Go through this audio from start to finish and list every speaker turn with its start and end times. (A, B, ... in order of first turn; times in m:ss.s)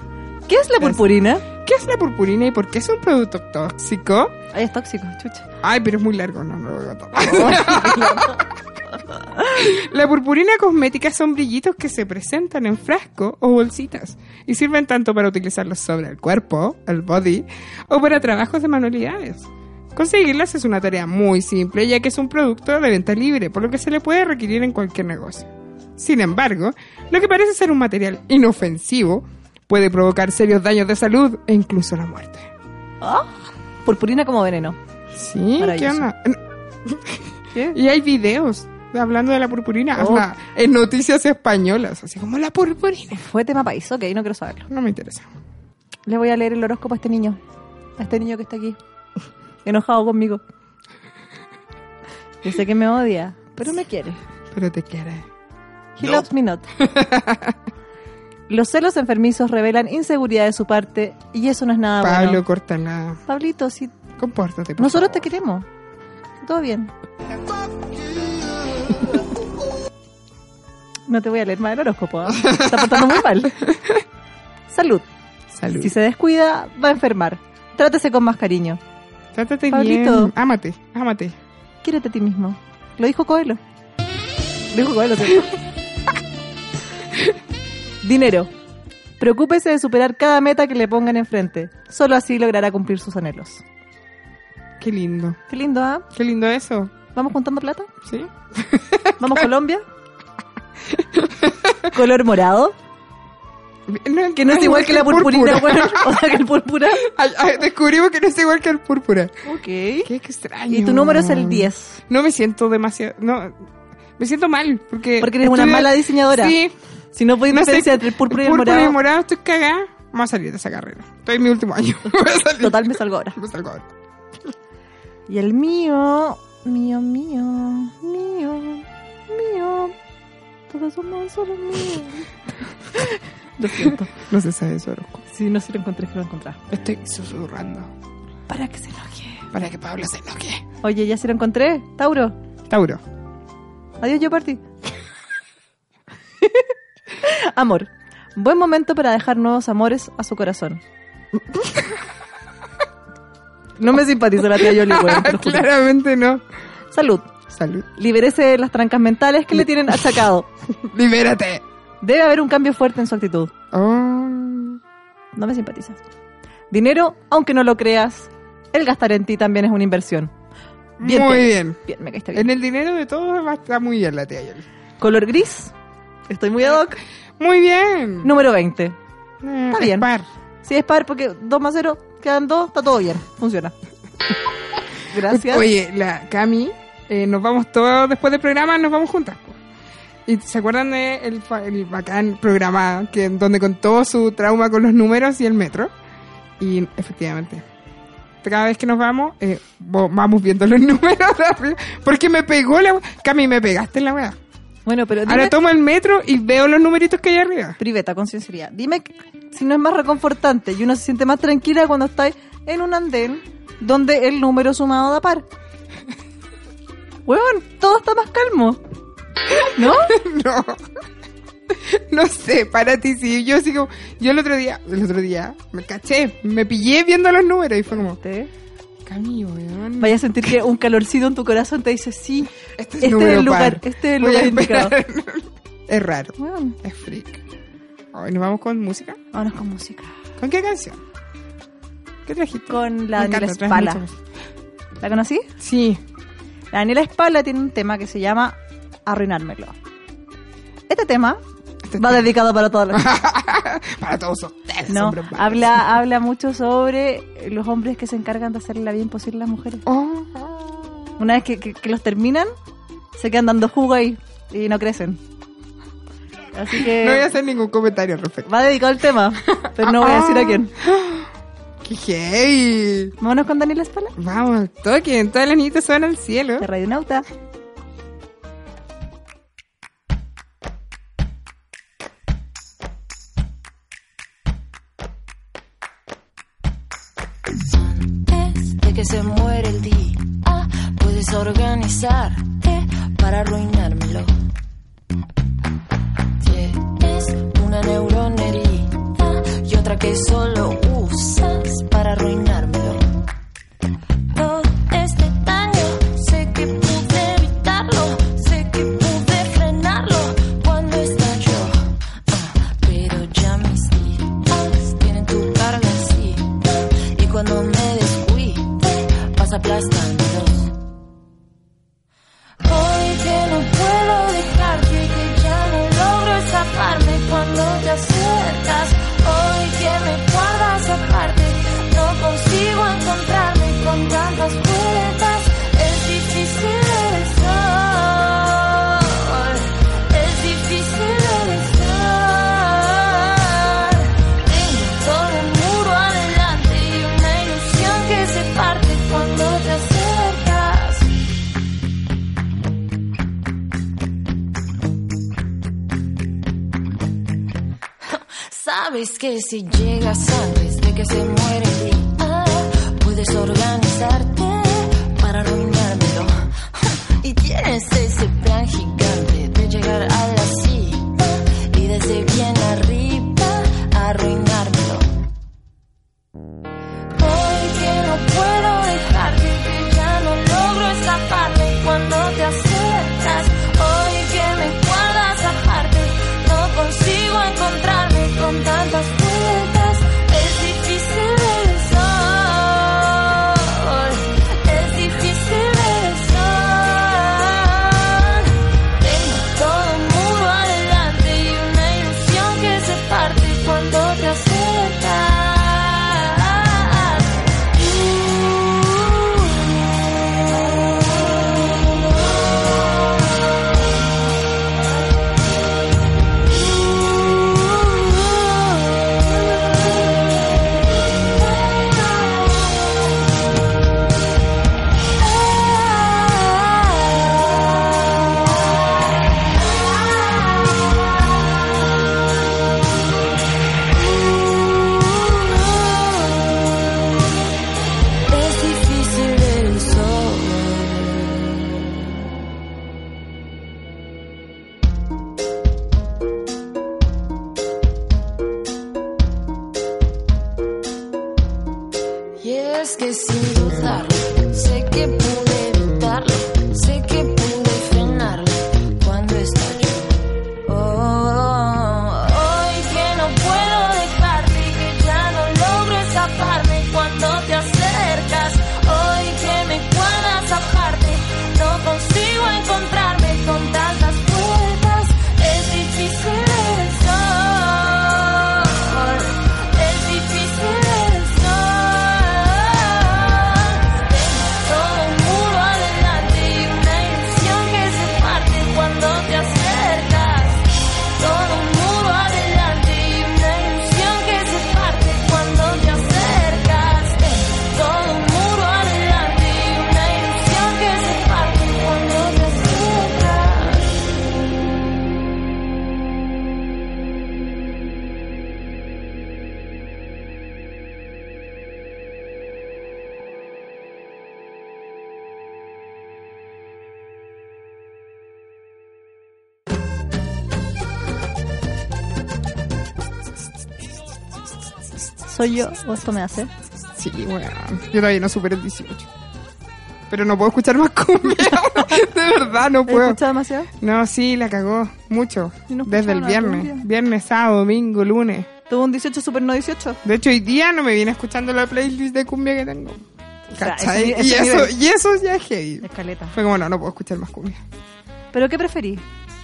0:00.5-0:01.4 A
0:00.8-0:04.4 B
0:04.5-0:05.5 A
0:05.6-0:08.4 B
0:07.2-0:08.4 A
0:09.4-0:32.5 B
0:33.0-0:33.3 A
0:33.8-0:34.8 A
0:35.1-0:43.2 B
0:35.6-0:36.1 A
0:40.0-0:40.3 A
0:43.1-0:44.7 A
0:44.7-0:45.3 B
0:46.1-0:47.4 A
0:48.0-0:48.8 A
0:49.6-0:50.4 A
0:52.4-0:54.2 A
0:54.5-0:55.2 B
0:56.0-0:56.7 A
0:56.0-0:56.2 B
0:56.8-0:57.6 B
0:58.5-1:02.4 A
1:02.0-1:03.2 B
1:03.3-1:03.9 A
1:04.2-1:05.2 B
1:04.8-1:05.6 A
1:06.4-1:06.9 A
1:11.1-1:13.5 A
1:12.4-1:14.0 B
1:14.7-1:15.0 A
1:15.5-1:15.9 B
1:15.7-1:18.8 A
1:19.3-1:21.4 B
1:19.7-1:20.3 A
1:21.8-1:23.6 A
1:24.7-1:25.5 A
1:28.0-1:28.5 A
1:29.2-1:33.6 A
1:34.8-1:35.4 B
1:35.5-1:36.0 A
1:36.1-1:36.9 B
1:37.1-1:37.9 A
1:38.0-1:39.4 B
1:39.2-1:39.8 A
1:40.9-1:41.9 B
1:41.9-1:42.8 A
1:43.9-1:46.3 B
1:44.4-1:47.0 A
1:47.0-1:49.3 B
1:49.4-1:50.1 A
1:50.0-1:53.6 B
1:50.7-1:52.0 A
1:54.2-1:56.7 B
1:55.2-1:56.6 A
1:57.1-1:59.0 A
1:57.5-2:03.9 B
2:02.6-2:03.4 A
2:05.3-2:09.9 A
2:10.7-2:14.1 A
2:14.2-2:15.2 B
2:15.3-2:16.6 A
2:16.7-2:17.9 B
2:18.5-2:19.5 A
2:19.5-2:20.6 B
2:20.8-2:22.3 A
2:22.7-2:23.0 B
2:24.0-2:24.6 A
2:26.4-2:26.7 A
2:27.2-2:30.8 A
2:31.3-2:32.0 B
2:33.8-2:35.7 A
2:34.5-2:36.4 B
2:36.9-2:37.3 A
2:37.5-2:37.9 B
2:38.0-2:40.5 A
2:40.8-2:41.6 B
2:42.0-2:43.5 A
2:43.7-2:44.8 B
2:45.3-2:46.0 A
2:46.7-2:50.3 A
2:51.0-2:51.8 B
2:51.0-2:52.5 A
2:52.3-2:54.6 B
2:55.0-2:55.7 A
2:56.3-2:57.0 A
2:57.4-2:58.3 B
2:58.2-2:59.0 A
2:59.4-3:00.2 B
2:59.7-3:00.1 A
3:00.6-3:03.7 A
3:05.1-3:05.7 A
3:05.3-3:09.6 B
3:10.2-3:15.9 B
3:16.6-3:17.6 B
3:18.4-3:24.4 B
3:24.8-3:25.6 A
3:25.2-3:27.8 B
3:27.8-3:35.4 A
3:37.3-3:38.8 A
3:39.6-3:40.8 B
3:39.7-3:40.1 A
3:41.7-3:48.2 B
3:48.0-3:48.5 A
3:49.0-3:50.2 B
3:50.0-3:55.0 A
3:52.8-3:57.4 B
3:56.4-3:56.8 A
3:58.1-3:59.2 B
3:59.3-4:00.1 A
4:00.4-4:01.0 B
4:02.2-4:04.2 B
4:02.7-4:04.0 A
4:05.0-4:05.5 A
4:05.6-4:06.0 B
4:06.7-4:09.7 A
4:10.9-4:11.4 A
4:11.9-4:12.2 B
4:12.0-4:13.1 A
4:12.9-4:15.9 B
4:14.9-4:19.8 A
4:19.8-4:21.1 B
4:21.2-4:22.5 A
4:23.2-4:25.2 A
4:26.5-4:27.3 A
4:26.8-4:28.5 B
4:28.5-4:30.7 A
4:29.5-4:31.3 B
4:31.8-4:33.1 B
4:33.2-4:34.1 A
4:34.2-4:36.7 B
4:36.6-4:37.2 A
4:47.7-4:54.3 C
4:56.4-5:03.1 C
5:04.3-5:20.7 C
5:22.6-5:51.1 C
5:58.0-6:15.1 C
6:17.1-6:38.5 C
6:39.0-6:47.4 C
6:48.0-6:49.7 C
6:50.5-6:53.1 C
6:57.2-7:00.4 C
7:01.4-7:03.0 C
7:05.2-7:07.6 C
7:10.0-7:10.8 C
7:14.5-7:16.9 C
7:18.3-7:21.9 C
7:32.4-8:10.6 C
8:11.2-8:23.9 C
8:45.3-8:46.5 A
8:47.0-8:49.1 B
8:50.1-8:53.2 B
8:51.5-8:52.0 A
8:52.9-8:53.7 A
8:53.8-8:58.5 B
8:55.7-8:56.8 A
8:58.7-9:00.0 A
9:00.0-9:07.6 B
9:03.5-9:04.7 A
9:05.8-9:06.3 A
9:08.3-9:09.0 A